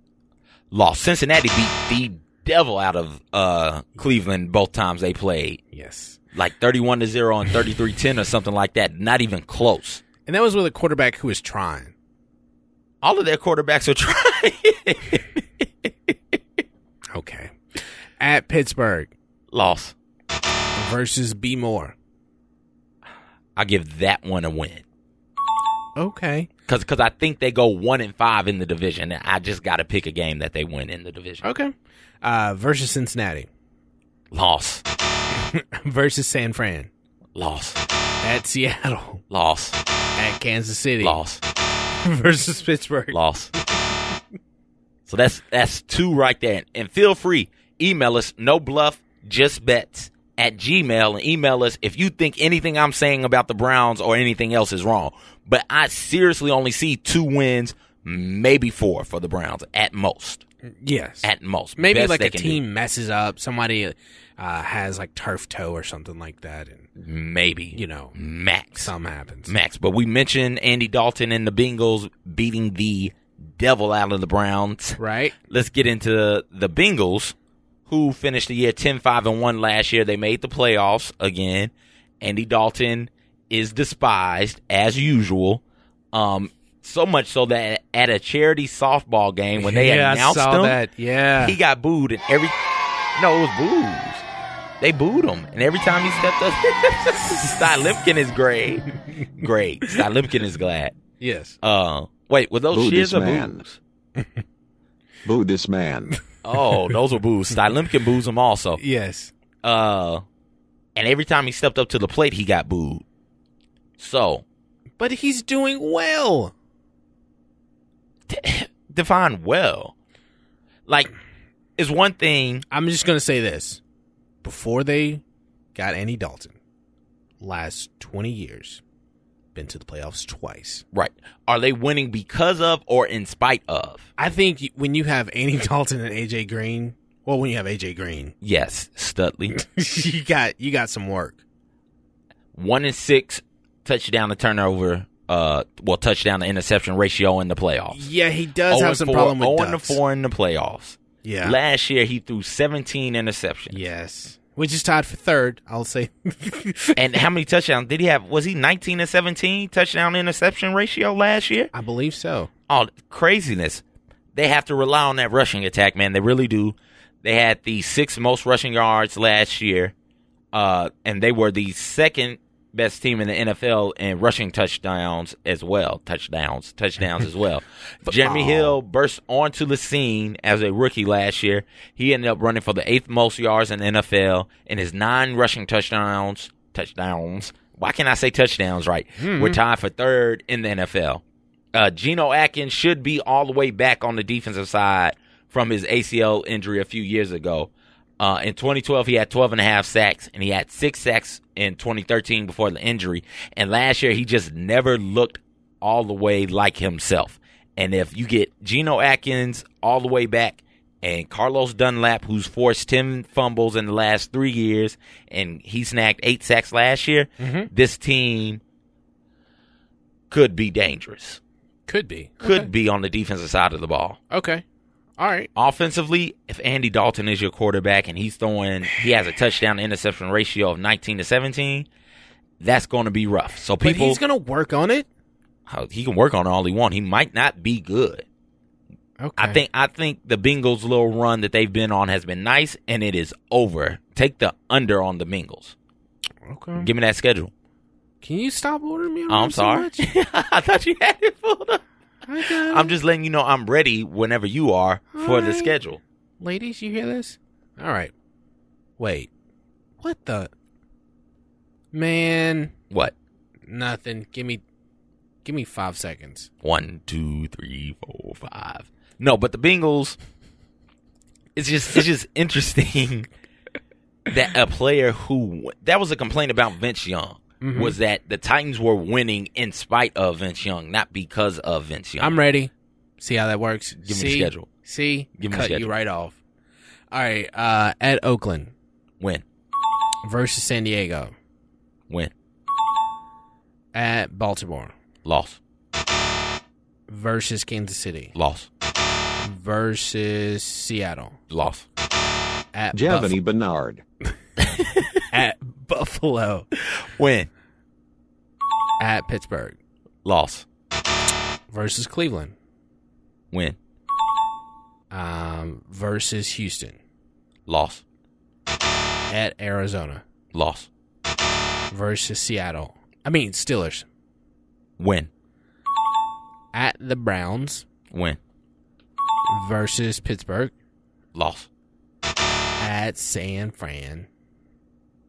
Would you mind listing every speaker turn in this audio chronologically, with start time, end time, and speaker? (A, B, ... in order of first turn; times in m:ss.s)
0:00.7-0:05.6 A
0:05.7-0:06.2 B
0:06.3-0:10.0 A
0:10.2-0:11.9 B
0:13.0-0:16.4 A
0:17.1-0:17.5 B
0:18.2-0:19.1 B
0:19.5-0:19.9 A
0:20.8-0:22.0 B
0:23.6-0:24.8 A
0:26.0-0:26.5 B
0:26.7-0:31.4 A
0:31.4-0:33.5 B
0:34.3-0:34.8 A
0:35.3-0:36.9 B
0:37.3-0:37.8 A
0:38.2-0:39.2 B
0:39.3-0:39.8 A
0:40.2-0:41.2 B
0:41.0-0:41.4 A
0:42.0-0:43.2 B
0:43.1-0:43.5 A
0:45.0-1:00.4 A
1:00.7-1:06.9 B
1:01.2-1:02.6 A
1:07.0-1:08.9 A
1:07.7-1:08.2 B
1:08.7-1:09.5 B
1:09.5-1:15.0 A
1:15.0-1:15.3 B
1:15.5-1:17.3 A
1:17.9-1:25.6 A
1:26.1-1:30.8 A
1:29.6-1:31.6 B
1:31.4-1:32.6 A
1:33.1-1:34.2 A
1:34.8-1:41.0 A
1:41.2-1:41.6 B
1:41.6-1:43.8 A
1:42.7-1:43.6 C
1:45.2-1:46.1 C
1:46.4-1:48.8 A
1:48.8-1:49.3 B
1:49.6-1:50.2 A
1:51.0-1:53.0 A
1:54.0-1:54.4 A
1:55.0-1:56.5 B
1:58.3-1:59.9 A
2:00.9-2:01.1 A
2:01.8-2:02.6 A
2:02.7-2:03.8 B
2:04.4-2:05.2 B
2:05.7-2:06.6 B
2:07.4-2:08.8 B
2:09.5-2:10.8 B
2:10.9-2:14.1 A
2:14.2-2:18.3 B
2:18.4-2:19.6 A
2:19.5-2:21.4 B
2:22.5-2:28.0 A
2:27.9-2:30.0 B
2:28.7-2:33.9 A
2:31.2-2:31.6 B
2:33.7-2:37.0 B
2:36.9-2:41.7 A
2:41.7-2:42.5 B
2:42.7-2:43.8 A
2:44.3-2:49.9 A
2:50.5-3:38.6 A
2:58.1-2:58.7 B
3:09.2-3:09.6 B
3:37.4-3:37.7 B
3:40.3-3:41.4 A
3:41.9-3:42.7 B
3:42.4-3:44.2 A
3:44.3-3:44.6 B
3:45.2-3:45.5 B
3:45.6-3:51.9 A
3:52.6-3:54.2 A
3:53.8-3:55.1 B
3:55.7-3:58.2 A
3:59.2-3:59.6 B
3:59.4-4:05.7 A
4:06.4-4:06.9 B
4:06.8-4:07.5 A
4:08.2-4:10.0 B
4:09.3-4:11.8 A
4:12.2-4:12.9 B
4:12.4-4:16.0 A
4:15.1-4:15.7 B
4:16.4-4:18.1 B
4:19.0-4:19.3 B
4:20.0-4:20.5 B
4:21.9-4:22.7 B
4:23.7-4:24.6 B
4:25.4-4:26.5 B
4:26.6-4:30.2 A
4:31.5-4:33.3 A
4:34.3-4:42.4 A
4:37.6-4:38.0 B
4:42.2-4:46.4 B
4:44.0-4:44.7 A
4:45.4-4:45.9 A
4:47.1-4:48.7 B
4:50.2-4:51.3 B
4:53.9-4:54.9 B
4:55.2-4:55.6 A
4:57.1-4:58.3 B
4:58.3-4:58.7 A
4:59.4-5:01.4 B
5:01.5-5:01.8 A
5:02.7-5:03.4 B
5:02.9-5:04.0 C
5:04.8-5:05.0 A
5:05.3-5:06.7 B
5:06.8-5:07.5 A
5:09.0-5:09.8 B
5:10.2-5:10.6 A
5:11.7-5:12.5 B
5:13.5-5:13.8 A
5:15.1-5:17.0 B
5:17.7-5:18.0 A
5:19.3-5:20.2 B
5:20.5-5:20.9 A
5:21.9-5:24.0 B
5:25.0-5:25.3 A
5:26.7-5:27.8 B
5:28.1-5:28.4 A
5:29.5-5:30.7 B
5:31.3-5:31.7 A
5:32.8-5:34.3 B